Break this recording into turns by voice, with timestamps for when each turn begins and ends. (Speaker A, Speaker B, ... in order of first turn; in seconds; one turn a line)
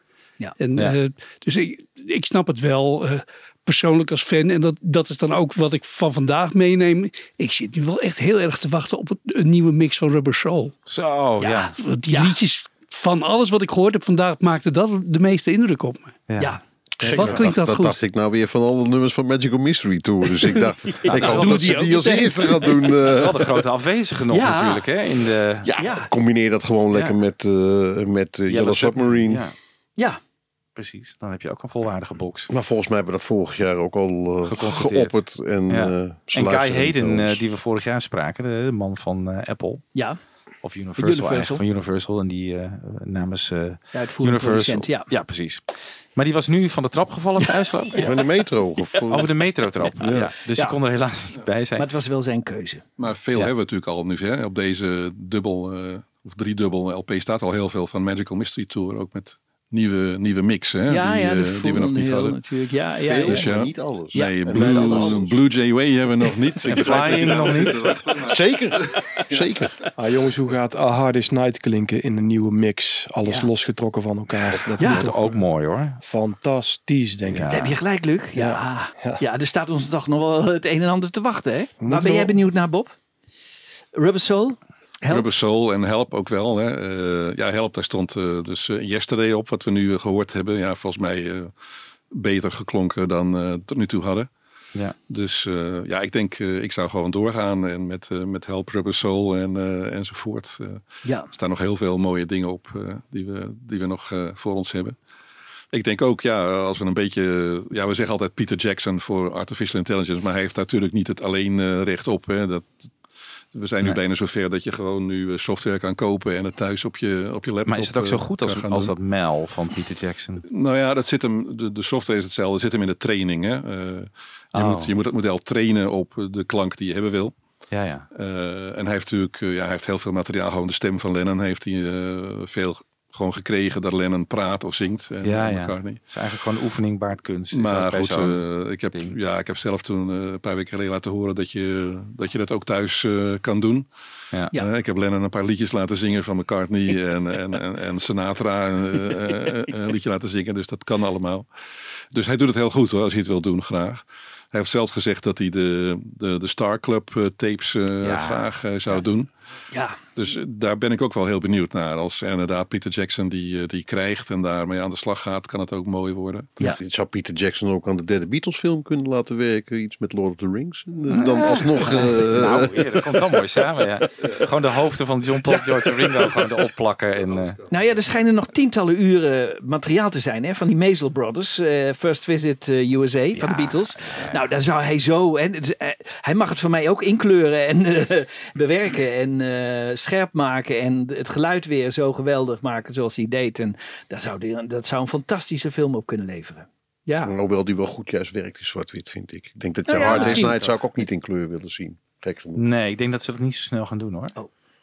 Speaker A: 0.6-10.8
Speaker B: 10.9-11.7
Speaker C: 11.4-12.3
Speaker A: 11.8-16.3
Speaker B: 16.3-17.5
Speaker D: 17.0-23.4
Speaker A: 17.1-18.0
Speaker C: 20.5-23.1
Speaker B: 21.1-21.7
Speaker B: 23.0-25.7
Speaker C: 24.3-24.9
Speaker D: 25.6-29.5
Speaker C: 25.8-26.1
Speaker B: 28.5-29.6
Speaker B: 30.8-32.5
Speaker D: 32.5-37.4
Speaker B: 34.5-40.0
Speaker C: 40.0-40.2
Speaker B: 40.6-48.1
Speaker C: 41.0-41.6
Speaker C: 43.9-45.1
Speaker C: 47.9-48.3
Speaker D: 48.0-50.3
Speaker B: 49.1-51.9
Speaker C: 50.5-50.8
Speaker C: 51.8-52.8
Speaker E: 53.0-62.4
Speaker C: 60.9-63.5
Speaker D: 63.0-65.4
Speaker E: 63.1-68.3
Speaker C: 64.1-65.2
Speaker C: 66.3-67.5
Speaker B: 66.7-68.0
Speaker D: 68.2-69.8
Speaker F: 70.0-75.5
Speaker C: 74.8-75.1
Speaker B: 74.8-76.0
Speaker F: 76.0-77.7
Speaker B: 77.3-77.7
Speaker C: 77.5-82.9
Speaker F: 78.3-79.2
Speaker F: 81.8-82.4
Speaker C: 84.0-85.3
Speaker E: 85.1-91.5
Speaker E: 92.1-94.3
Speaker E: 95.1-105.0
Speaker C: 101.0-101.3
Speaker E: 105.7-112.9
Speaker E: 113.5-118.9
Speaker B: 117.7-120.5
Speaker E: 120.5-127.4
Speaker B: 124.5-124.9
Speaker B: 127.7-128.1
Speaker E: 128.1-136.0
Speaker B: 135.2-139.2
Speaker E: 137.5-143.9
Speaker E: 144.6-151.5
Speaker E: 152.1-159.3
Speaker B: 158.0-158.5
Speaker C: 159.7-160.0
Speaker E: 160.2-166.5
Speaker D: 166.6-173.2
Speaker B: 171.1-177.6
Speaker C: 175.5-176.4
Speaker C: 177.7-197.3
Speaker B: 183.3-184.5
Speaker D: 197.2-202.7
Speaker C: 199.9-200.7
Speaker B: 200.0-200.8
Speaker B: 202.6-204.3